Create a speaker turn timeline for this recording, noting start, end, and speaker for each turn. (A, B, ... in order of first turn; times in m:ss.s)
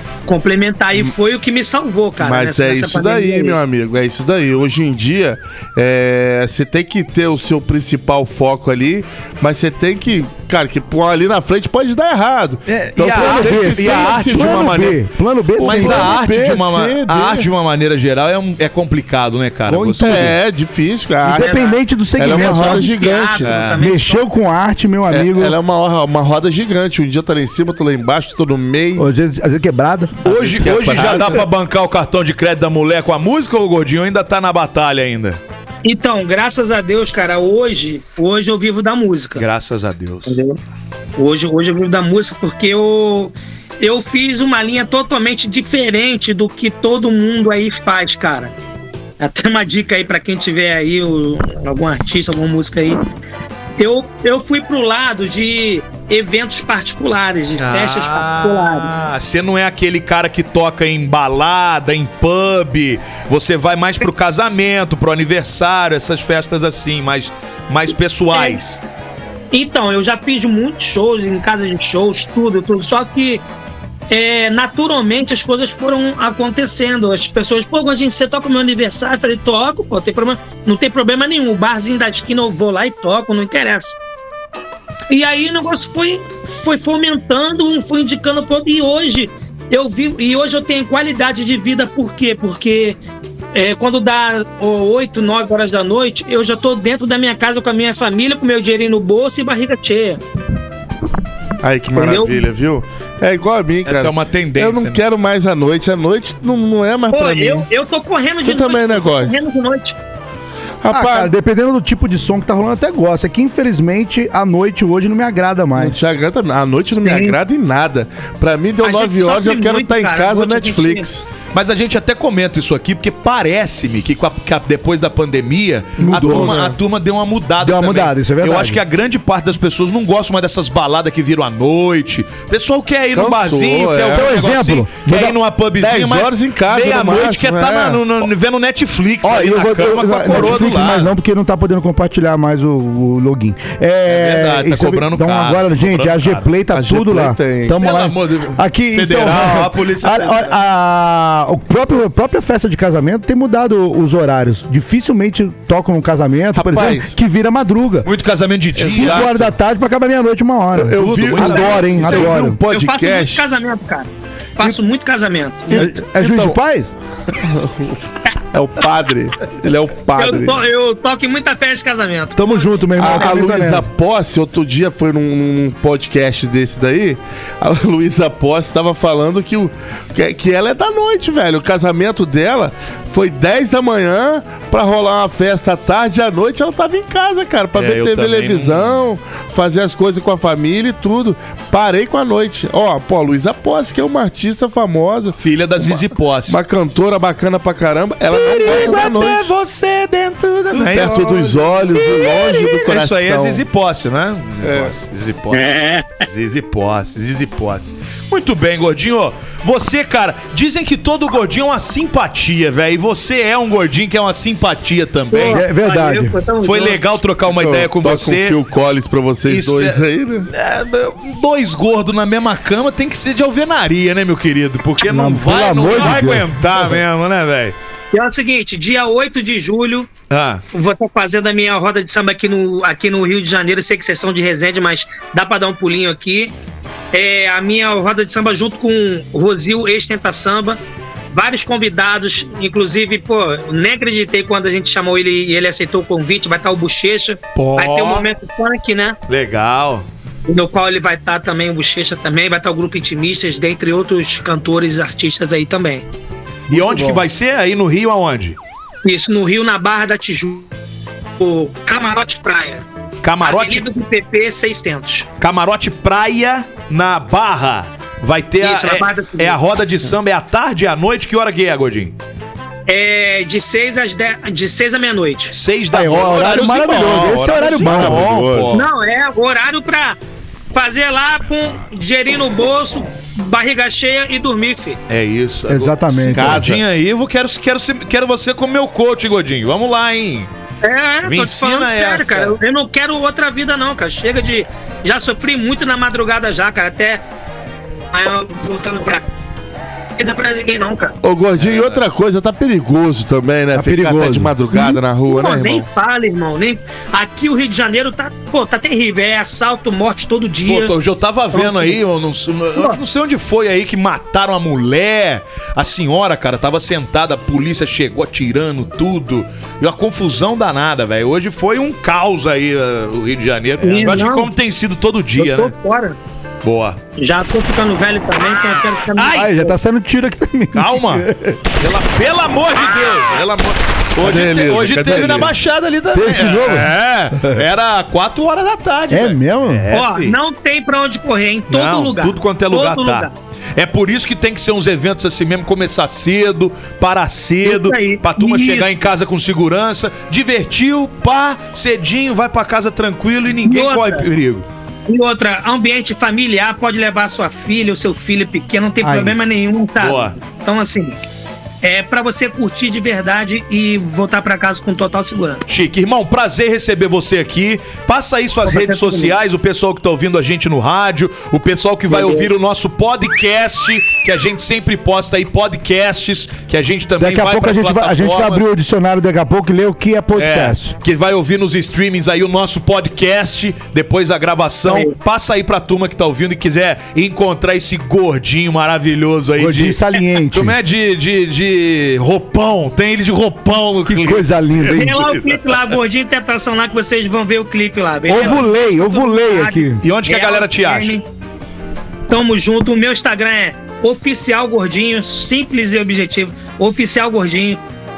0:00.3-0:03.6 A
0:02.2-0:15.0 B
0:12.7-0:15.0 C
0:13.0-0:16.3 D
0:15.6-0:17.5 B
0:15.6-0:20.4 C
0:19.7-0:20.4 D
0:20.0-0:23.5 B
0:21.2-0:22.9 D
0:21.4-0:24.3 A
0:23.4-0:23.8 C
0:23.8-0:25.6 D
0:25.1-0:29.1 B
0:29.0-0:30.3 D
0:30.2-0:31.4 B
0:30.2-0:35.4 C
0:35.8-0:39.4 A
0:39.4-0:40.3 C
0:40.3-0:40.6 A
0:41.2-0:48.5 A
0:49.2-0:53.0 A
0:53.8-0:58.9 A
0:57.6-1:08.8 C
1:08.3-1:08.6 A
1:09.5-1:13.4 A
1:14.1-1:24.0 A
1:25.1-1:33.0 A
1:33.5-1:40.2 A
1:41.6-1:47.7 B
1:41.9-1:42.5 A
1:43.8-1:45.0 C
1:47.1-1:50.0 A
1:48.4-1:49.4 B
1:50.8-1:51.3 B
1:50.9-1:56.0 D
1:55.8-2:01.2 B
1:57.0-1:57.4 A
1:58.8-2:01.1 A
2:01.5-2:21.1 C
2:06.0-2:06.8 B
2:06.0-2:06.6 D
2:07.6-2:08.8 D
2:13.1-2:14.4 B
2:14.1-2:15.4 D
2:15.8-2:18.0 B
2:19.2-2:38.1 D
2:20.3-2:21.0 B
2:24.1-2:26.5 C
2:26.7-2:27.8 B
2:27.8-2:30.6 C
2:36.6-2:37.2 B
2:38.0-2:39.5 C
2:38.8-2:39.4 B
2:38.8-2:42.6 D
2:40.8-2:43.4 B
2:41.0-2:42.4 C
2:42.7-2:45.8 A
2:45.7-2:46.6 B
2:45.7-2:46.9 D
2:47.4-2:48.0 B
2:48.5-2:50.6 B
2:50.2-2:52.8 A
2:52.4-2:53.9 D
2:53.0-3:19.5 B
3:07.8-3:09.0 C
3:15.4-3:16.6 C
3:18.3-3:35.6 C
3:20.7-3:23.6 B
3:20.9-3:21.6 D
3:24.6-3:24.9 B
3:25.5-3:26.2 A
3:35.3-3:37.0 A
3:35.5-3:36.4 D
3:36.6-3:38.6 C
3:37.5-3:40.5 B
3:39.5-3:47.8 C
3:45.0-3:46.6 D
3:48.1-3:50.1 A
3:50.3-3:50.6 C
3:50.7-3:56.5 A
3:57.1-4:00.8 A
4:01.3-4:09.2 A
4:07.6-4:08.3 C
4:09.3-4:10.1 C
4:10.5-4:16.1 A
4:16.7-4:18.6 C
4:16.7-4:17.2 B
4:19.0-4:20.7 A
4:21.4-4:22.8 A
4:23.2-4:23.8 C
4:23.4-4:25.3 A
4:25.4-4:32.1 C
4:28.6-4:29.6 A
4:32.9-4:35.6 A
4:35.5-4:38.8 C
4:35.9-4:38.4 D
4:37.8-4:38.8 B
4:38.7-4:40.2 A
4:40.7-4:45.0 A
4:45.1-4:50.5 C
4:45.7-4:46.8 D
4:46.3-4:46.8 B
4:50.8-4:57.2 A
4:51.2-4:52.6 C
4:58.1-4:59.3 A
5:00.2-5:01.2 A
5:01.2-5:05.9 B
5:01.6-5:02.0 C
5:03.7-5:04.5 D
5:04.7-5:10.9 A
5:10.7-5:25.7 C
5:11.5-5:12.0 A
5:23.8-5:24.5 A
5:25.4-5:26.2 A
5:26.6-5:27.0 C
5:27.2-5:29.8 A
5:29.2-5:29.6 C
5:29.3-5:31.6 D
5:30.7-5:40.4 C
5:34.2-5:35.5 B
5:36.1-5:37.6 D
5:39.1-5:39.9 D
5:39.9-5:43.3 A
5:41.7-5:54.7 C
5:47.6-5:49.0 A
5:53.6-5:54.3 A
5:55.1-6:01.2 A
5:59.0-5:59.4 D
6:00.0-6:00.4 C
6:01.8-6:05.6 A
6:05.7-6:18.6 C
6:08.6-6:09.4 A
6:17.2-6:21.0 D
6:20.4-6:35.8 C
6:24.9-6:25.1 A
6:29.6-6:30.8 D
6:34.1-6:35.2 D
6:34.9-6:41.2 A
6:38.3-6:40.0 D
6:40.0-6:41.2 C
6:42.3-6:47.8 A